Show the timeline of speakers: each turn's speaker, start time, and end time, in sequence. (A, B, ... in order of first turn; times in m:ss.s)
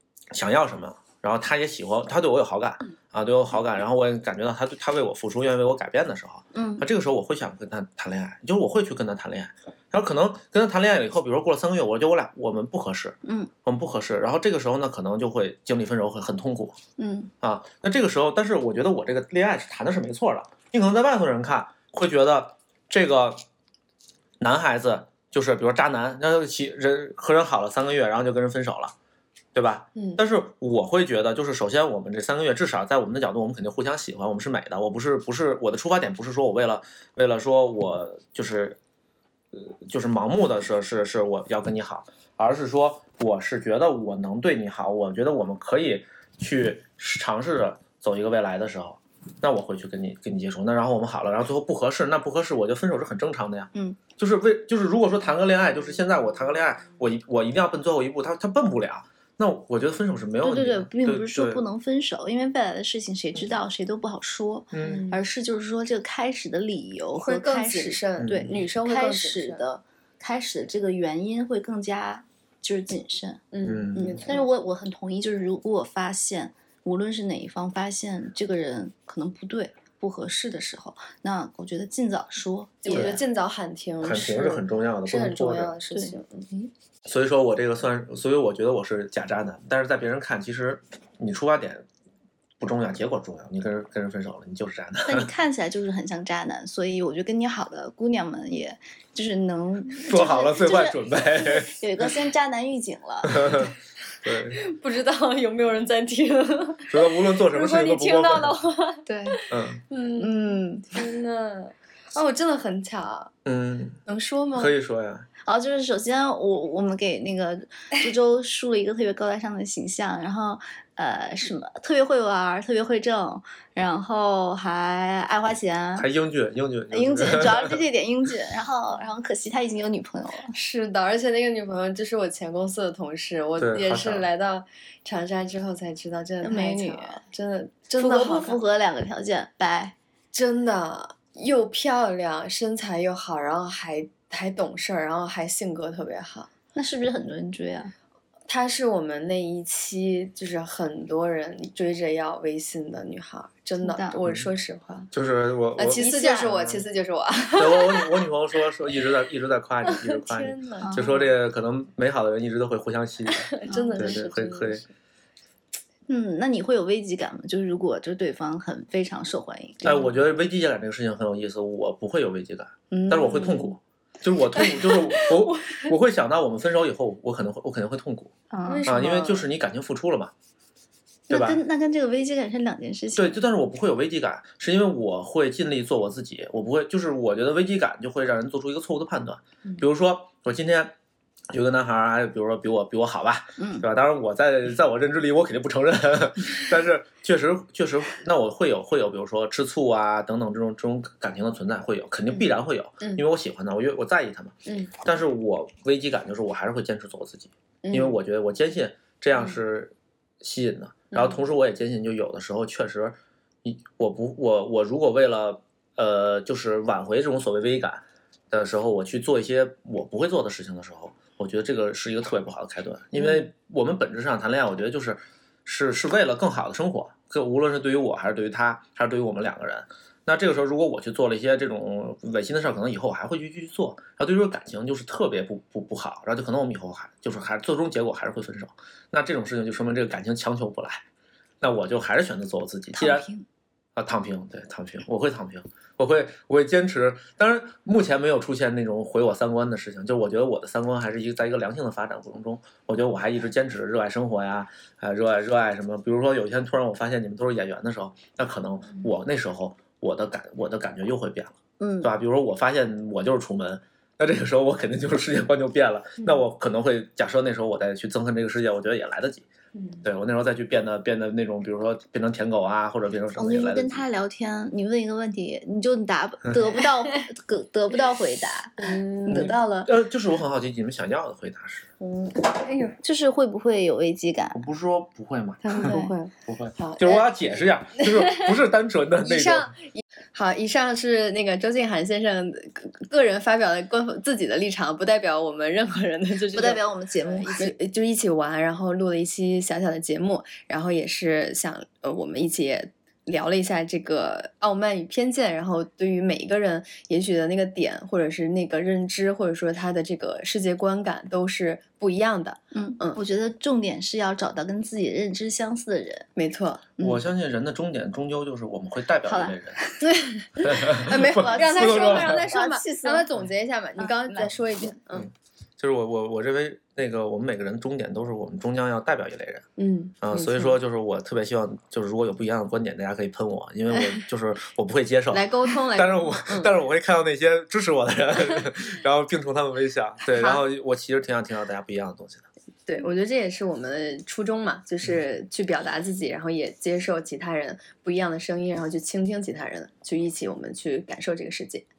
0:00.3-0:16.8 A
0:06.5-0:06.9 B
0:13.2-0:13.5 B
0:17.0-0:17.3 B
0:17.4-0:23.4 A
0:24.4-0:28.9 A
0:29.5-0:38.8 A
0:29.9-0:30.2 C
0:39.5-1:01.6 A
0:53.7-0:54.0 B
1:00.4-1:23.2 B
1:04.7-1:05.0 A
1:04.8-1:05.2 C
1:07.2-1:09.6 C
1:08.2-1:08.6 A
1:13.5-1:14.5 C
1:13.6-1:14.2 A
1:22.8-1:26.7 C
1:22.9-1:23.2 A
1:24.0-1:25.7 A
1:27.0-1:31.9 A
1:32.6-1:35.3 A
1:35.0-1:43.7 B
1:40.0-1:42.2 A
1:43.2-1:44.6 A
1:44.5-1:53.3 C
1:46.9-1:48.6 A
1:49.0-1:49.4 B
1:49.5-1:49.8 A
1:50.2-1:51.0 B
1:53.4-1:54.0 A
1:54.0-1:54.7 C
1:54.5-1:55.3 A
1:55.4-2:06.1 B
2:06.0-2:07.8 A
2:06.9-2:10.6 B
2:10.5-2:18.6 C
2:13.6-2:14.3 A
2:16.4-2:17.2 B
2:18.0-2:19.9 B
2:20.3-2:26.5 C
2:26.7-2:27.9 B
2:28.5-2:35.1 C
2:33.8-2:34.2 B
2:35.1-2:36.8 A
2:35.8-2:38.2 C
2:37.5-2:44.8 A
2:39.8-2:41.3 C
2:40.8-2:41.2 B
2:43.3-2:44.9 C
2:43.7-2:44.2 B
2:46.1-2:50.1 B
2:49.8-2:58.3 A
2:52.9-2:53.7 B
2:55.1-2:55.8 C
2:58.5-2:58.9 B
2:58.6-2:59.5 C
2:58.9-3:00.3 A
3:01.3-3:03.4 B
3:01.3-3:01.6 A
3:03.1-3:10.9 A
3:11.5-4:01.0 A
3:13.6-3:13.9 B
3:24.7-3:24.9 C
3:27.8-3:28.2 C
3:31.1-3:31.4 C
4:01.6-4:03.2 A
4:02.9-4:03.4 B
4:04.0-4:29.5 A
4:21.8-4:22.1 B
4:29.7-4:30.0 C
4:30.0-4:34.0 A
4:33.4-4:39.9 B
4:38.8-4:39.5 C
4:39.3-4:41.9 A
4:42.0-4:42.4 B
4:42.4-4:43.0 C
4:43.0-4:44.6 B
4:44.5-4:46.0 A
4:45.6-4:47.3 C
4:45.8-4:46.1 B
4:46.5-4:49.7 A
4:48.0-4:48.4 C
4:49.2-4:56.8 C
4:56.5-4:57.7 B
4:57.4-5:13.2 C
5:12.7-5:16.3 B
5:16.4-5:16.8 C
5:17.0-5:17.2 B
5:17.0-5:19.8 A
5:19.2-5:20.0 B
5:20.0-5:25.3 C
5:20.6-5:22.4 A
5:21.0-5:23.2 B
5:24.0-5:24.9 B
5:25.1-5:29.6 A
5:29.8-5:30.8 C
5:30.2-5:42.5 A
5:33.9-5:34.2 C
5:35.3-5:36.7 C
5:40.3-5:40.6 C
5:42.9-5:51.9 C